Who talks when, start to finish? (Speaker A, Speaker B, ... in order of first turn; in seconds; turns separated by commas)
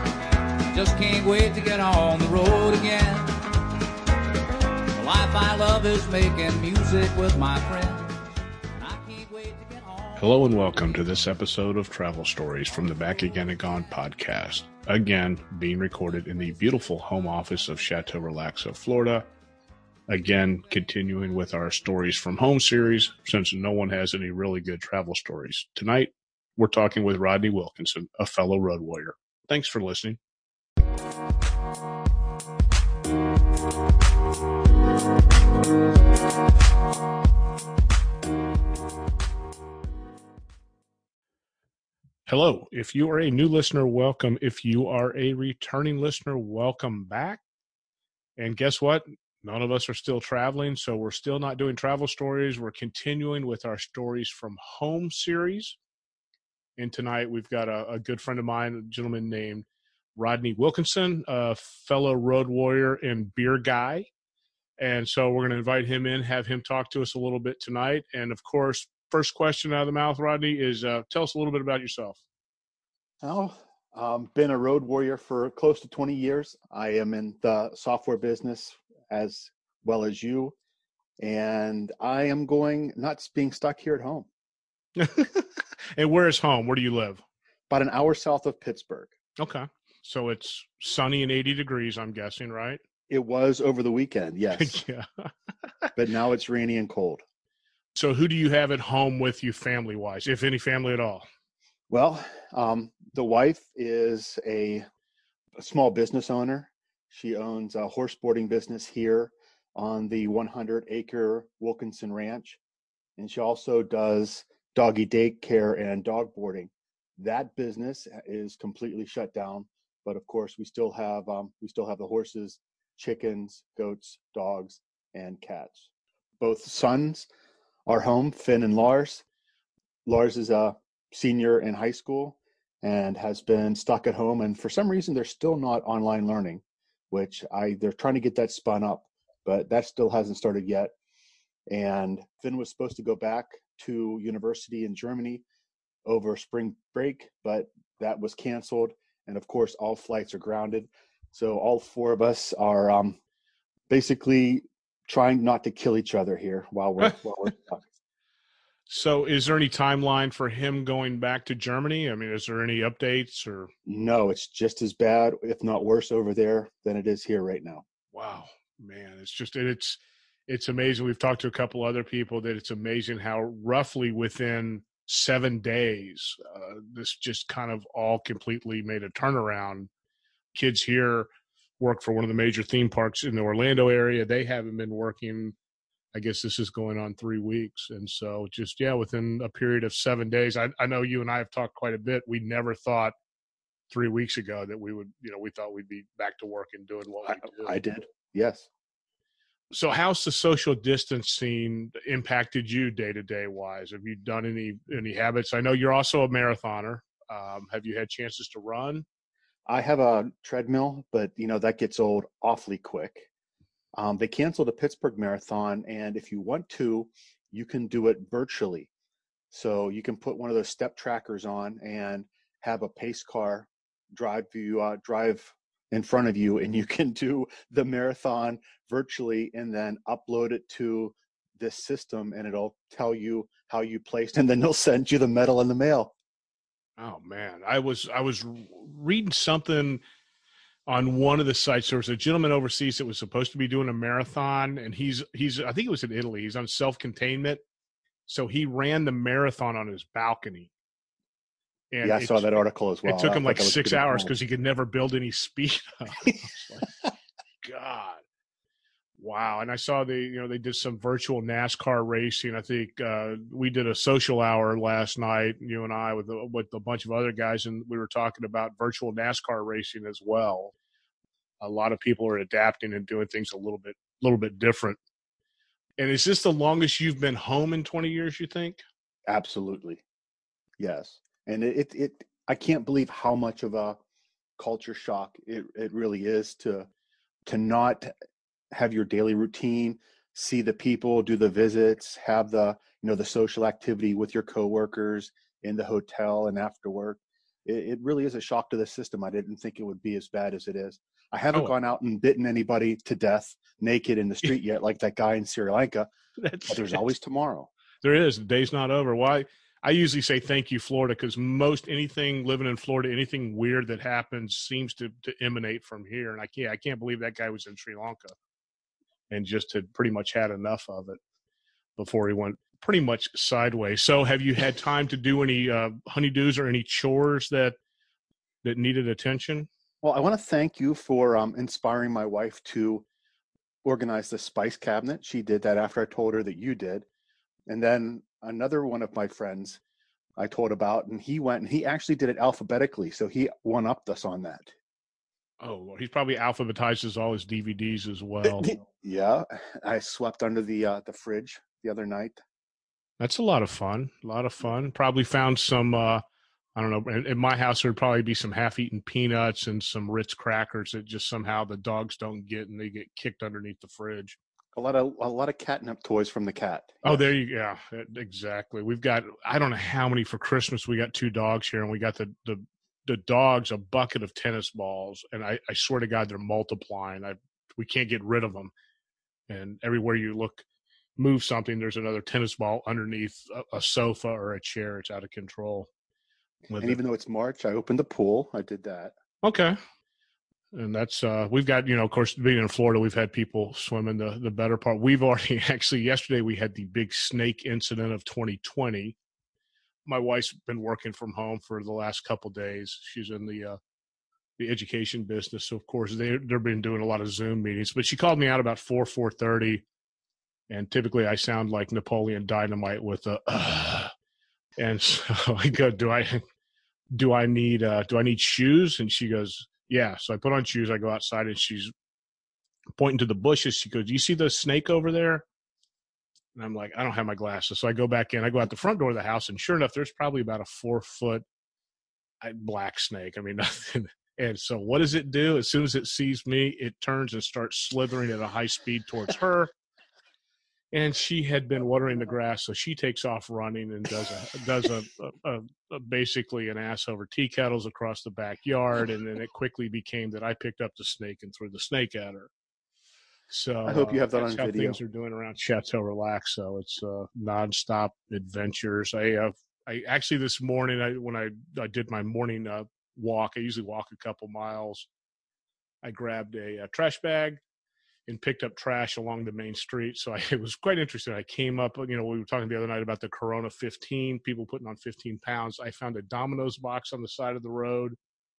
Speaker A: 0.7-3.4, Speaker A: 4.9-10.8, Speaker B: 10.2-19.3, Speaker B: 20.1-30.2, Speaker B: 42.3-47.4, Speaker B: 48.4-55.8, Speaker B: 56.8-64.1, Speaker B: 64.8-72.2, Speaker C: 73.2-80.6, Speaker C: 81.2-84.3, Speaker B: 85.0-87.2, Speaker C: 87.7-89.1, Speaker B: 89.4-92.8, Speaker C: 93.1-94.8, Speaker B: 94.5-95.9, Speaker C: 96.0-97.2, Speaker B: 98.0-101.2, Speaker C: 101.9-104.8, Speaker C: 105.6-112.6, Speaker C: 113.2-127.3, Speaker C: 127.9-129.2, Speaker C: 130.1-140.9, Speaker C: 141.7-145.4, Speaker C: 146.1-153.2, Speaker C: 153.9-157.8, Speaker B: 158.9-163.7, Speaker C: 163.8-167.8, Speaker B: 168.1-179.9, Speaker B: 180.5-181.3, Speaker B: 181.8-185.5, Speaker B: 186.1-193.1, Speaker B: 193.9-197.8, Speaker C: 197.2-198.7, Speaker B: 199.7-209.0, Speaker C: 209.7-213.3, Speaker C: 213.9-218.9, Speaker C: 219.5-236.1, Speaker B: 237.0-240.0, Speaker B: 240.9-247.6, Speaker B: 248.3-250.7, Speaker B: 251.9-256.9, Speaker C: 252.0-254.3, Speaker B: 257.6-258.2, Speaker B: 259.2-270.7, Speaker B: 271.6-275.0, Speaker B: 276.0-278.8, Speaker C: 279.3-280.0, Speaker C: 280.8-284.0, Speaker C: 284.6-286.9, Speaker C: 287.5-288.1, Speaker C: 288.7-306.1, Speaker B: 306.4-307.0, Speaker C: 306.7-307.7, Speaker B: 308.0-318.4, Speaker B: 319.3-321.2, Speaker B: 322.0-327.8, Speaker B: 328.6-329.7, Speaker C: 330.0-333.1, Speaker C: 333.8-337.1, Speaker C: 337.7-339.8, Speaker C: 340.4-344.7, Speaker B: 345.6-348.7, Speaker C: 348.4-352.4, Speaker B: 353.2-356.2, Speaker B: 356.8-364.4, Speaker C: 364.8-367.3, Speaker B: 367.0-378.7, Speaker B: 379.5-380.6, Speaker B: 381.2-385.9, Speaker B: 386.7-387.0, Speaker C: 386.8-389.1, Speaker B: 389.4-389.8, Speaker B: 390.7-399.2, Speaker B: 400.1-403.8, Speaker B: 404.6-409.8, Speaker B: 410.7-414.1, Speaker B: 414.8-416.4, Speaker B: 417.1-421.9, Speaker B: 423.0-425.4, Speaker B: 426.6-431.4, Speaker B: 432.4-439.7, Speaker B: 440.9-452.5, Speaker B: 453.5-465.1, Speaker C: 453.9-455.0, Speaker B: 466.0-467.6, Speaker B: 468.3-478.2